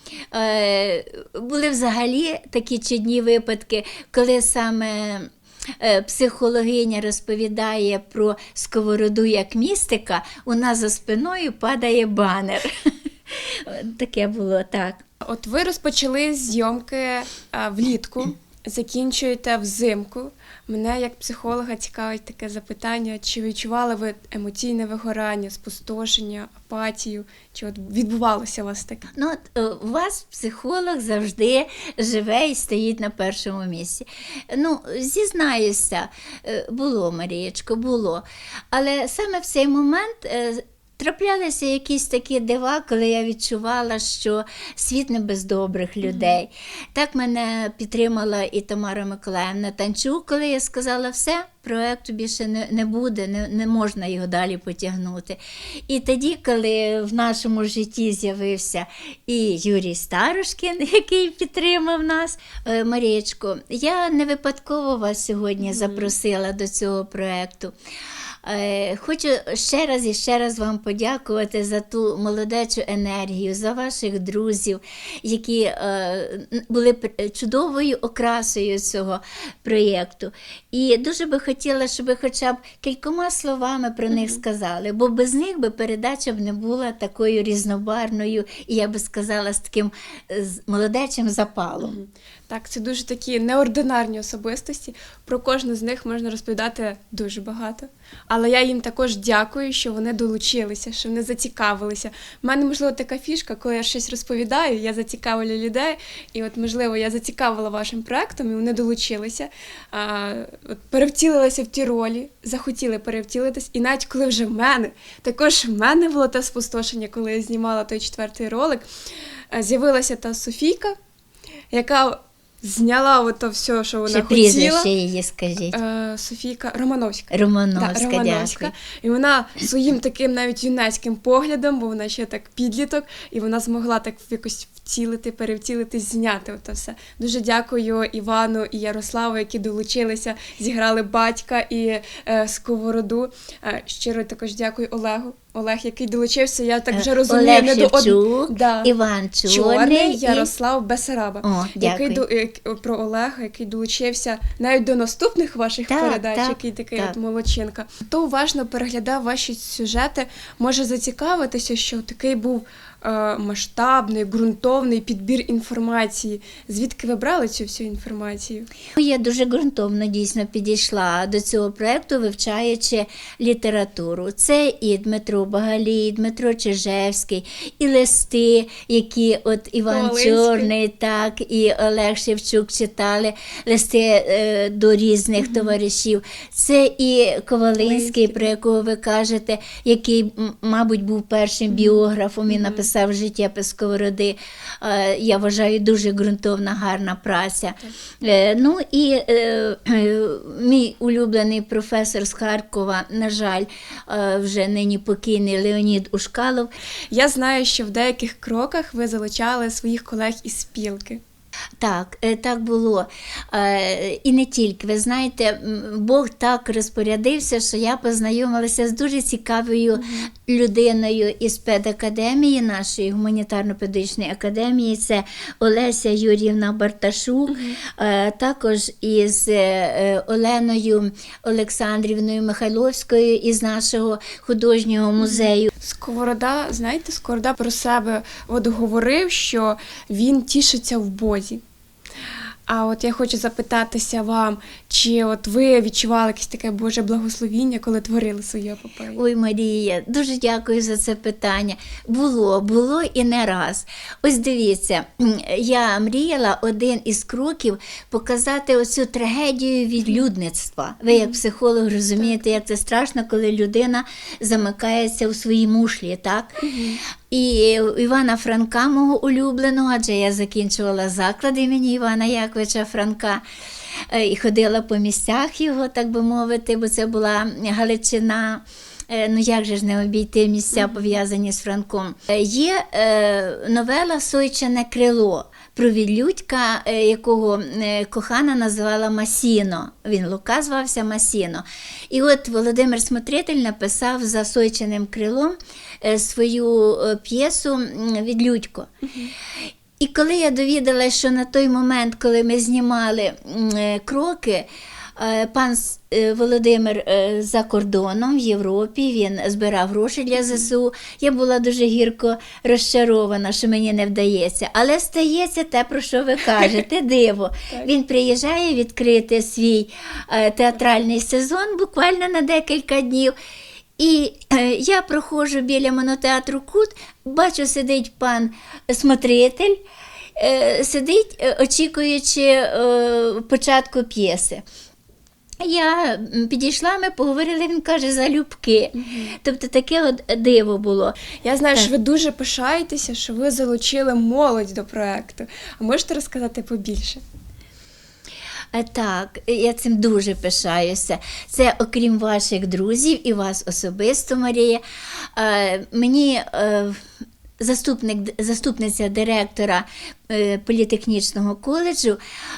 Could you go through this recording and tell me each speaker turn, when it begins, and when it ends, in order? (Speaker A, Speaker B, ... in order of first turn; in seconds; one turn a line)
Speaker A: 0.3-15.0
Speaker B: 15.2-29.1
Speaker A: 29.1-67.7
Speaker B: 46.0-46.4
Speaker B: 65.6-66.1
Speaker A: 68.4-92.0
Speaker B: 84.1-84.4
Speaker B: 91.8-118.8
Speaker B: 119.5-121.0
Speaker B: 121.7-124.9
Speaker A: 124.1-125.8
Speaker B: 125.7-148.9
Speaker A: 127.3-128.7
Speaker A: 146.9-150.5
Speaker B: 149.4-168.7
Speaker A: 151.4-152.2
Speaker A: 155.9-157.2
Speaker A: 169.0-206.7
Speaker B: 179.9-180.7
Speaker B: 185.4-185.8
Speaker B: 187.8-188.5
Speaker B: 191.7-192.9
Speaker B: 207.1-211.2
Speaker A: 211.8-235.7
Speaker B: 219.9-220.3
Speaker B: 227.5-227.8
Speaker B: 235.2-241.6
Speaker B: 242.7-249.2
Speaker A: 249.2-266.6
Speaker B: 261.1-261.4
Speaker B: 266.6-267.0
Speaker A: 267.3-273.4
Speaker A: 274.1-298.9
Speaker B: 280.7-281.2
Speaker B: 299.0-299.3
Speaker A: 300.0-323.3
Speaker A: 324.0-329.8
Speaker A: 330.4-334.6
Speaker A: 335.6-341.1
Speaker B: 338.9-339.4
Speaker B: 341.4-347.2
Speaker A: 348.7-354.8
Speaker A: 355.3-357.1
Speaker A: 357.6-362.2